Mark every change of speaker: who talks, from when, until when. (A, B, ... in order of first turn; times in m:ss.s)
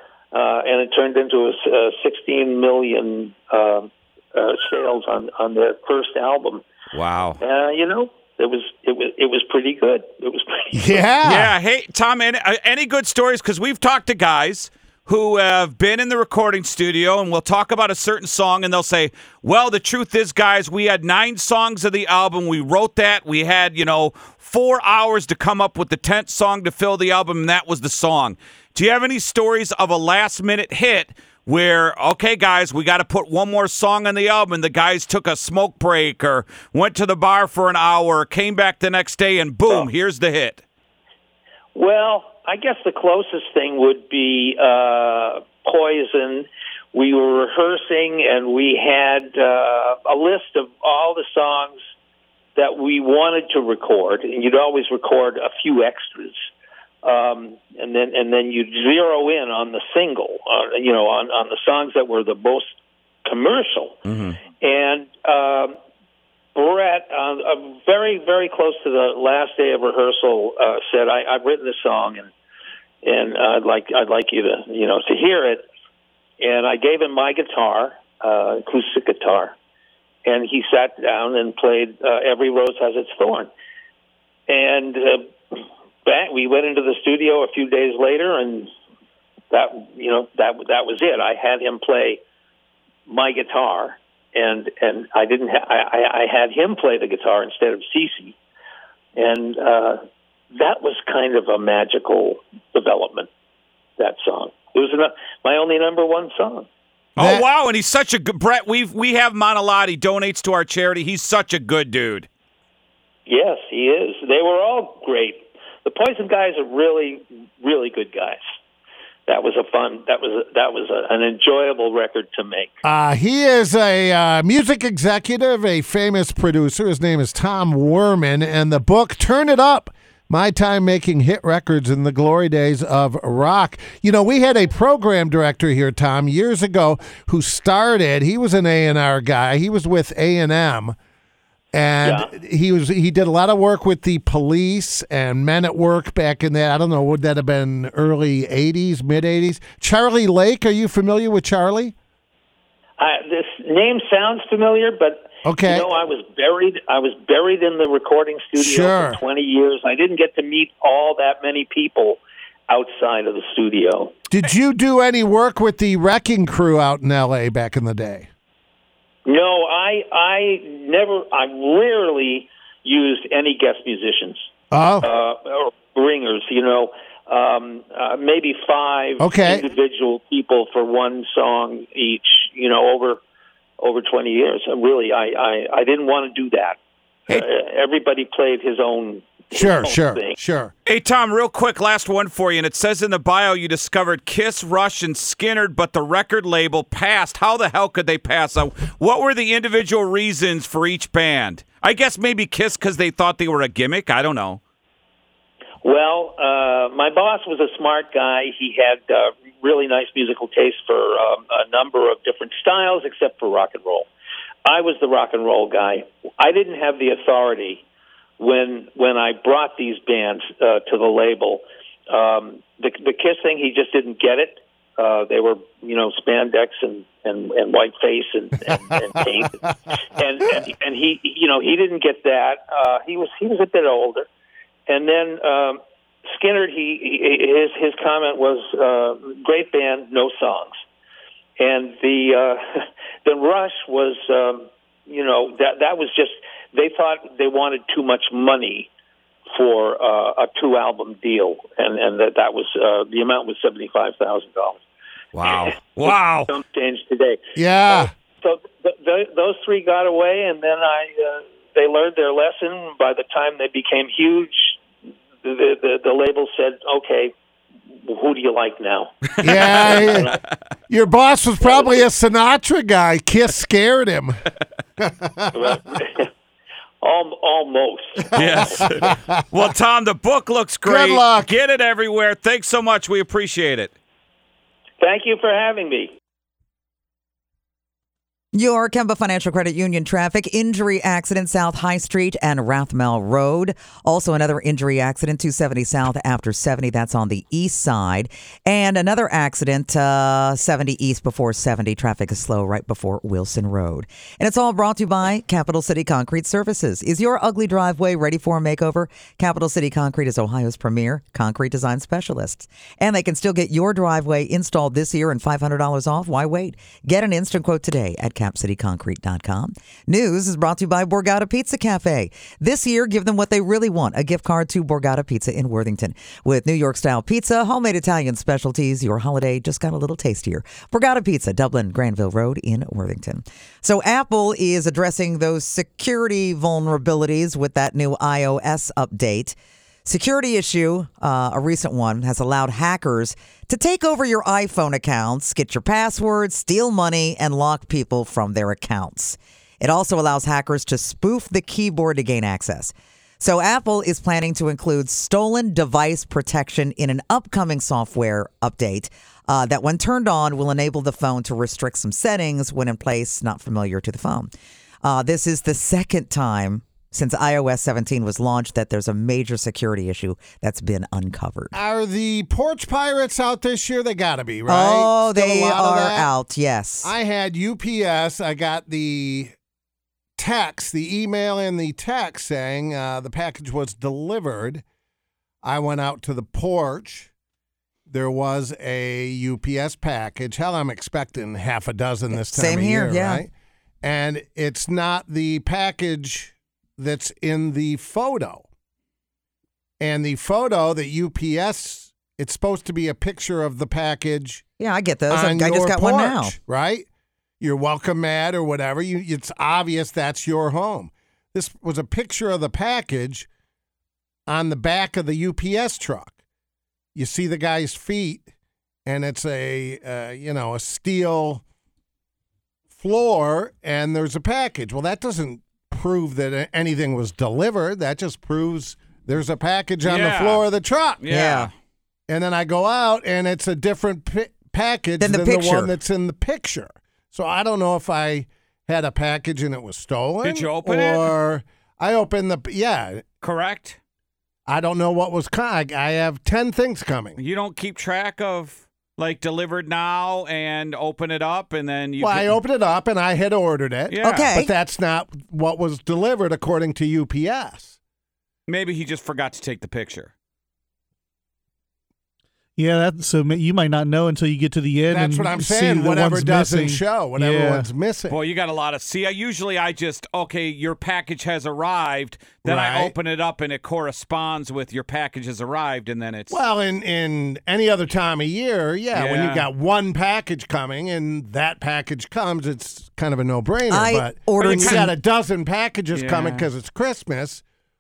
0:00.3-0:06.6 A
0:06.9-0:07.4 B
0:07.4-0:11.0 A
0:10.7-0:11.5 C
0:11.2-0:40.6 B
0:41.8-0:51.8 A
0:52.6-0:56.4 A
0:57.0-1:02.7 A
1:03.2-1:04.0 A
1:04.1-1:04.4 B
1:04.6-1:05.8 A
1:06.6-1:12.3 A
1:13.0-1:15.6 A
1:16.4-1:19.6 A
1:20.2-1:23.5 A
1:24.5-1:25.3 A
1:26.0-1:28.7 A
1:29.5-1:32.2 A
1:33.1-1:38.4 A
1:39.2-1:40.0 A
1:40.5-1:43.3 A
1:44.0-1:46.7 A
1:47.2-1:52.3 B
1:47.2-1:47.4 C
1:53.3-1:58.4 A
1:59.3-2:02.7 A
2:02.8-2:21.0 C
2:21.7-2:31.9 C
2:22.0-2:22.3 A
2:33.0-2:44.2 A
2:35.4-2:35.9 C
2:38.6-2:39.2 C
2:44.3-2:48.3 C
2:49.3-2:54.4 A
2:54.7-2:55.1 C
2:55.0-3:03.2 A
2:59.2-2:59.7 C
3:03.8-3:06.8 A
3:07.3-3:10.4 A
3:09.5-3:10.7 C
3:10.9-3:24.6 B
3:25.8-3:34.1 A
3:34.7-3:37.8 A
3:38.4-3:49.6 A
3:50.2-3:54.3 A
3:54.9-4:00.7 A
4:01.6-4:02.6 A
4:03.2-4:08.9 A
4:09.5-4:14.8 A
4:15.4-4:16.5 B
4:15.4-4:24.8 A
4:17.6-4:18.1 C
4:25.4-4:27.3 A
4:28.0-4:29.1 A
4:29.4-4:30.4 C
4:29.5-4:30.1 B
4:29.6-4:30.4 A
4:30.9-4:34.4 C
4:31.6-4:31.9 A
4:35.0-4:35.7 C
4:35.5-4:36.3 A
4:37.0-4:38.6 A
4:38.3-4:39.4 C
4:38.4-4:43.9 B
4:40.8-4:41.5 C
4:45.0-4:46.1 A
4:48.5-6:04.5 D
6:05.0-6:11.8 D
6:11.7-6:16.3 C
6:14.7-6:17.1 D
6:17.0-6:19.5 C
6:20.4-6:24.8 C
6:25.6-6:27.3 C
6:28.1-6:33.5 C
6:32.3-6:33.4 D
6:34.0-6:38.7 C
6:40.0-6:44.6 C
6:44.8-6:46.6 D
6:45.3-6:47.1 C
6:47.6-6:53.5 C
6:54.5-6:56.4 C
6:57.2-6:58.5 C
6:59.1-7:01.6 C
7:02.9-7:11.2 C
7:10.0-7:10.6 B
7:11.2-7:11.7 B
7:11.3-7:11.7 D
7:12.3-7:23.2 C
7:15.2-7:15.9 D
7:20.4-7:21.3 B
7:23.4-7:24.0 B
7:24.7-7:27.4 C
7:27.4-7:32.6 B
7:32.2-7:38.0 C
7:34.1-7:34.5 B
7:34.2-7:34.7 D
7:38.7-7:40.3 B
7:42.8-7:47.9 E
7:45.1-7:48.4 C
7:48.3-7:56.6 B
7:52.6-7:53.1 C
7:56.5-8:07.6 C
7:59.1-7:59.6 B
8:03.9-8:05.1 D
8:04.6-8:05.1 B
8:06.1-8:06.7 B